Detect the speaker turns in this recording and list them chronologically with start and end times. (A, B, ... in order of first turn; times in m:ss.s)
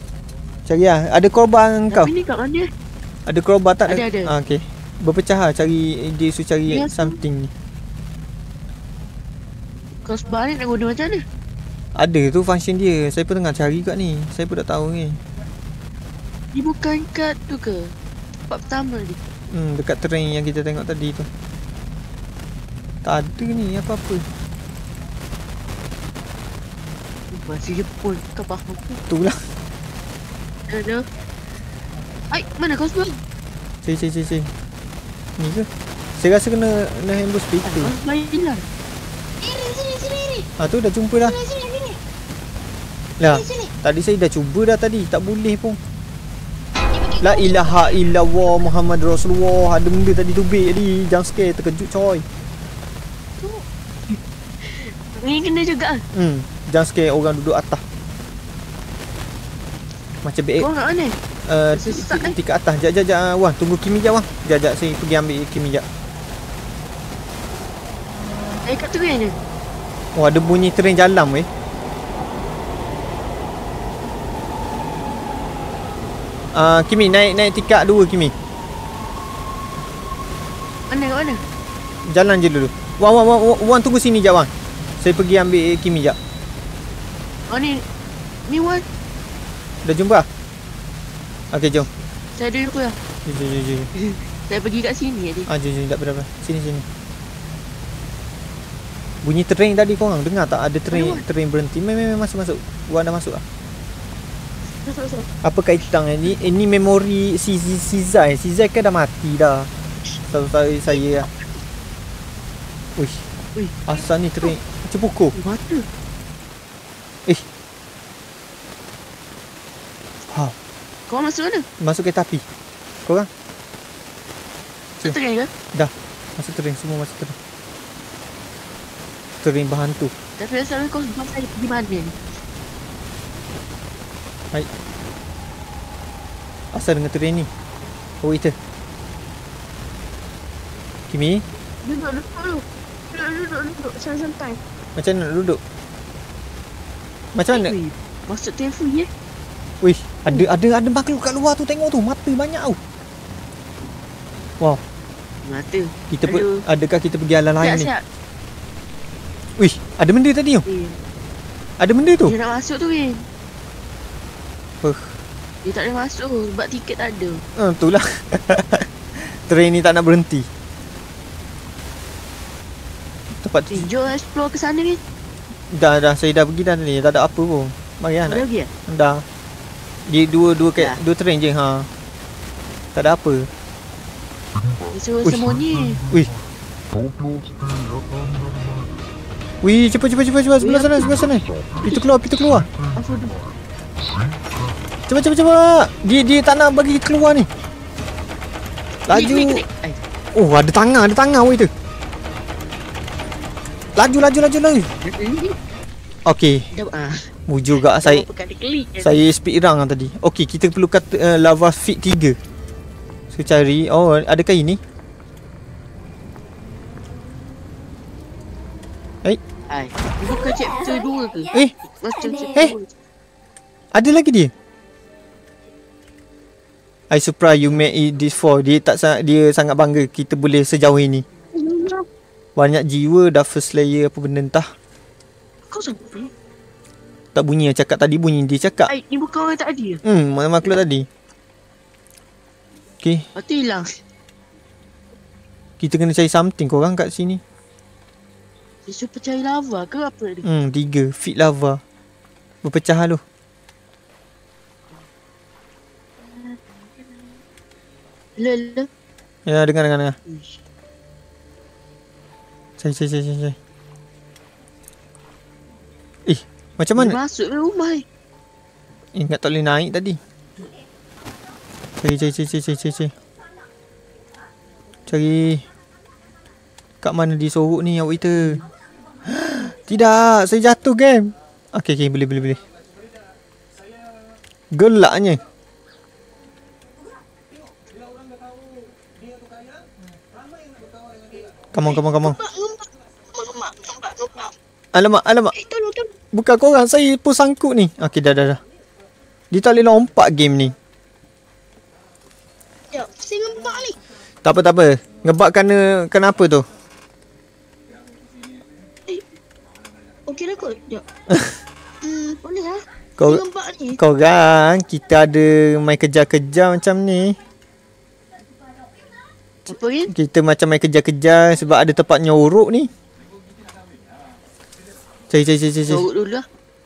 0:00.7-0:02.1 A
0:01.9-0:02.7 B
0:03.2-0:07.5 A
0:03.8-0:04.3 B
0:06.7-0:07.2 B
0:10.0-0:11.2 B
0:12.0-0:15.2 A
0:16.5-0:17.9 B
0:18.5-0:19.2 B
0:19.5-0:21.3 A
0:23.0-0:24.3 A
0:27.3-0:29.0 B
0:29.1-0:29.4 A
0:30.7-0:31.0 B
0:32.3-0:33.1 B
0:33.8-0:34.5 A
0:35.4-0:37.9 A
0:37.6-0:38.6 B
0:39.4-0:40.5 C
0:40.6-0:41.3 A
0:41.2-0:42.0 C
0:43.2-0:45.8 A
0:43.2-0:43.7 C
0:46.8-0:48.0 C
0:47.2-0:52.2 A
0:54.1-0:56.0 B
0:56.1-0:57.8 A
1:00.2-1:00.7 A
1:00.6-1:01.2 B
1:01.5-1:05.8 A
1:01.7-1:02.4 B
1:08.6-1:09.3 B
1:10.1-1:11.5 A
1:16.5-1:18.3 A
1:20.9-1:21.4 B
1:22.1-1:26.2 A
1:27.5-1:27.8 B
1:28.5-1:28.8 B
1:29.8-1:30.3 A
1:31.5-1:31.9 A
1:32.3-1:33.0 B
1:33.2-1:33.9 A
1:34.0-1:35.5 B
1:35.5-1:36.8 A
1:39.2-1:43.4 A
1:40.9-1:41.2 B
1:44.9-1:45.2 B
1:45.4-1:49.7 A
1:50.3-1:51.3 A
1:53.0-1:53.2 A
1:53.5-1:54.6 B
1:53.8-1:55.3 A
1:55.3-1:55.9 B
2:00.3-2:00.6 A
2:01.1-2:01.7 B
2:01.8-2:02.4 A
2:05.0-2:05.5 B
2:05.7-2:07.4 A
2:09.4-2:10.1 A
2:10.4-2:12.2 B
2:16.7-2:17.5 A
2:18.2-2:18.6 A
2:21.1-2:21.4 A
2:21.8-2:24.0 B
2:23.9-2:24.6 C
2:25.0-2:25.6 A
2:27.3-2:27.7 A
2:27.5-2:29.1 B
2:29.8-2:32.8 A
2:35.4-2:36.6 B
2:36.1-2:37.9 A
2:37.6-2:38.0 B
2:39.6-2:40.6 A
2:40.6-2:41.0 B
2:41.8-2:42.3 A
2:42.2-2:43.2 B
2:44.8-2:45.1 A
2:45.6-2:47.4 B
2:47.6-2:50.5 A
2:53.4-2:53.8 A
2:53.7-2:55.0 B
2:55.7-2:59.2 A
2:58.3-2:58.7 B
3:00.1-3:01.9 A
3:02.9-3:03.5 A
3:04.9-3:06.0 B
3:09.6-3:12.7 A
3:10.6-3:12.0 B
3:12.9-3:13.4 B
3:15.1-3:17.5 A
3:19.1-3:19.6 A
3:19.1-3:20.0 B
3:20.3-3:21.7 A
3:24.0-3:24.9 A
3:25.0-3:25.6 B
3:26.2-3:26.6 A
3:26.7-3:27.3 B
3:27.5-3:28.2 A
3:27.9-3:29.2 B
3:29.0-3:32.4 A
3:33.3-3:34.8 A
3:39.7-3:42.9 B
3:43.9-3:44.5 A
3:47.1-3:51.2 A
3:51.6-3:52.0 C
3:52.6-3:54.7 A
3:55.7-3:56.3 B
3:57.3-3:58.9 A
3:58.9-4:00.0 B
4:00.0-4:01.1 A
4:03.4-4:03.9 B
4:05.8-4:07.4 A
4:08.8-4:10.4 B
4:10.4-4:11.8 A
4:12.6-4:13.2 A
4:18.4-4:18.9 B
4:19.4-4:20.2 A
4:20.3-4:20.6 B
4:22.8-4:23.5 A
4:26.2-4:27.2 A
4:27.0-4:28.0 B
4:29.1-4:30.2 A
4:32.0-4:33.1 A
4:35.1-4:35.6 A
4:37.0-4:38.6 A
4:39.3-4:42.6 A
4:44.7-4:45.4 A
4:51.7-4:52.4 A
4:51.8-4:54.5 C
4:54.9-4:55.5 A
4:55.5-4:56.1 C
4:56.3-4:58.6 A
4:59.5-5:00.7 A
5:02.9-5:04.0 C
5:04.4-5:06.6 A
5:10.3-5:11.0 C
5:11.3-5:11.5 A
5:12.0-5:14.0 C
5:14.0-5:17.4 A
5:19.7-5:20.1 B
5:20.1-5:22.9 A
5:25.3-5:26.0 A
5:25.9-5:26.4 B